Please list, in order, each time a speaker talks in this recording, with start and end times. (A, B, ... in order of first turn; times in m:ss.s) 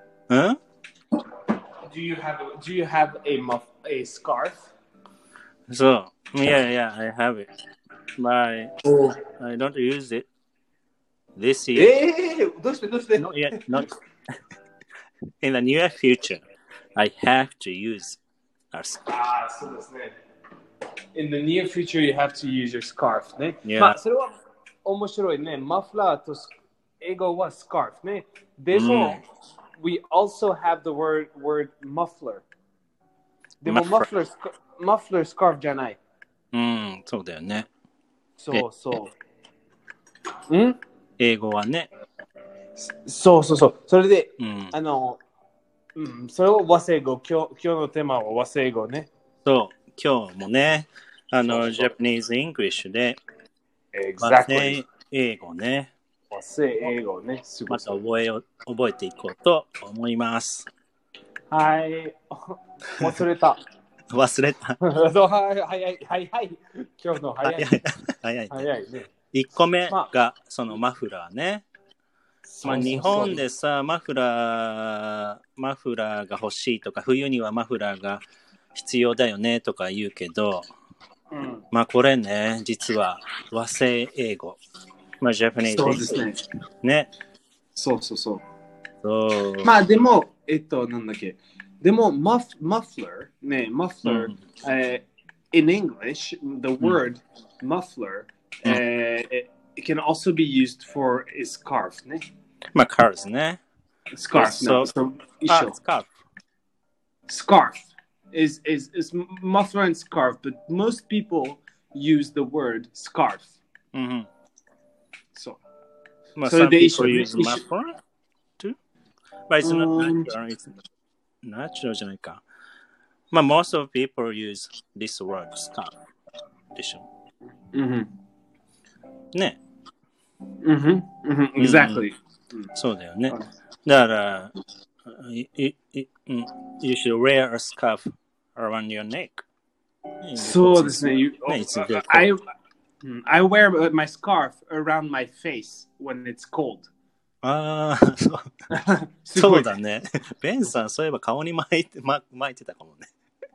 0:00.3-0:00.6 A
0:01.9-0:04.7 B
0:05.7-0:07.5 A
0:08.2-0:10.3 A
0:08.8-0:09.2 B
0:11.3-0:11.9 A
0:11.7-0:13.8 B
0:13.2-0:13.9 A
0:15.4-0:16.4 A
0:17.0-0:18.2 A
0:18.7-0:19.0 A
0:19.1-0:20.1 B
0:21.1-0:24.3 B
0:23.6-0:24.0 A
0:24.8-0:29.2 B
0:28.7-0:29.2 A
0:29.8-0:32.4 B
0:33.6-0:36.0 B
0:33.6-0:34.1 A
0:36.5-0:37.7 A
0:38.4-0:39.1 B
0:40.5-0:40.8 B
0:41.2-0:41.9 A
0:42.8-0:45.2 B
0:44.4-0:44.7 A
0:46.0-0:49.1 B
0:49.4-0:53.2 A
0:51.4-0:51.9 B
0:53.9-0:54.8 B
0:54.2-0:55.9 A
0:56.3-0:57.9 B
0:57.7-1:00.7 A
1:01.5-1:03.6 B
1:04.1-1:04.8 A
1:04.8-1:07.7 B
1:07.4-1:08.7 A
1:08.5-1:09.1 B
1:09.3-1:11.6 A
1:12.4-1:13.4 B
1:12.6-1:18.2 A
1:18.7-1:20.7 A
1:21.3-1:21.6 B
1:21.7-1:24.6 A
1:25.2-1:26.3 A
1:25.7-1:26.4 B
1:26.8-1:27.1 A
1:27.7-1:28.4 B
1:29.0-1:29.7 A
1:29.6-1:42.2 B
1:34.0-1:34.3 A
1:42.7-1:43.6 A
1:44.1-1:45.7 B
1:44.3-1:44.9 A
1:45.4-1:46.1 A
1:47.3-1:53.6 B
1:53.9-1:54.3 A
1:55.3-1:55.6 B
1:56.4-1:58.0 A
1:56.4-1:57.6 B
1:59.5-2:00.7 A
1:59.6-2:00.3 B
2:01.4-2:02.4 A
2:03.3-2:05.9 A
2:06.7-2:07.0 A
2:07.7-2:08.1 B
2:10.6-2:12.7 B
2:11.6-2:12.0 A
2:12.7-2:14.5 A
2:15.0-2:19.4 A
2:20.2-2:22.3 A
2:20.4-2:22.4 B
2:23.0-2:26.9 B
2:27.4-2:28.4 A
2:28.7-2:29.7 B
2:29.4-2:33.1 A